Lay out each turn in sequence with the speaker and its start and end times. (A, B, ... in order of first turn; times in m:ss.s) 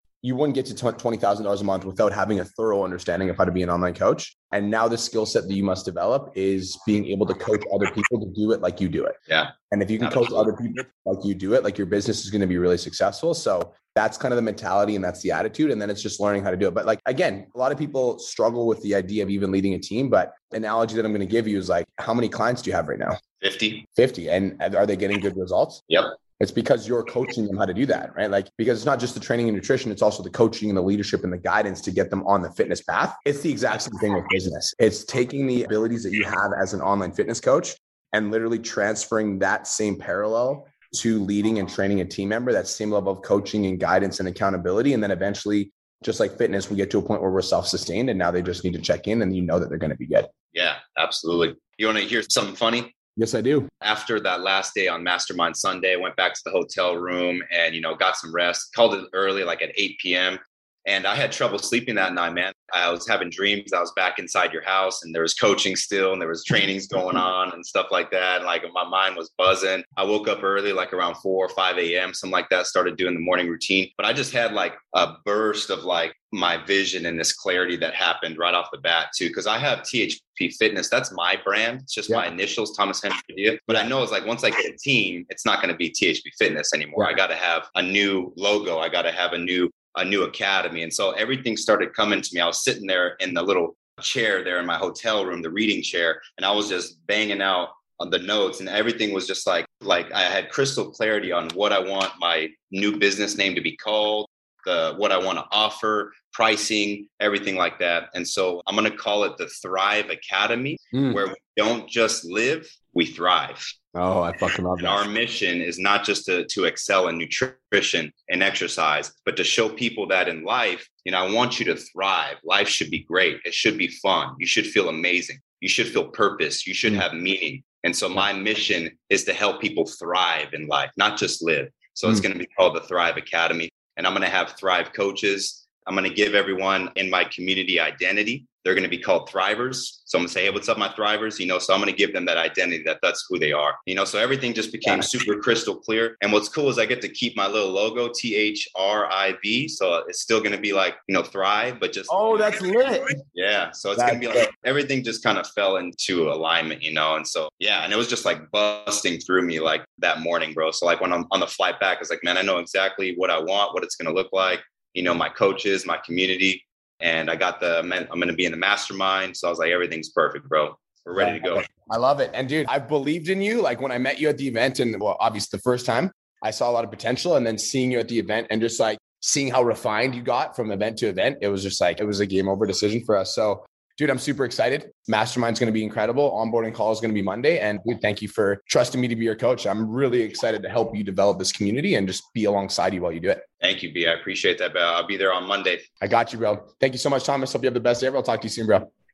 0:00.2-0:09.2 A
0:09.3-0:10.5 B
0:09.7-0:23.2 A
0:23.4-0:23.8 B
0:24.0-0:25.8 A
0:26.4-0:50.3 A
0:50.5-0:52.9 B
0:53.2-0:53.7 A
0:53.8-1:53.7 B
1:50.9-1:51.2 A
1:54.0-1:55.0 A
1:54.8-2:32.6 B
2:24.8-2:25.1 A
2:32.1-2:33.2 A
2:33.3-2:51.7 B
2:34.0-2:34.5 A
2:51.2-3:13.4 A
3:13.6-3:15.8 B
3:16.0-3:18.9 A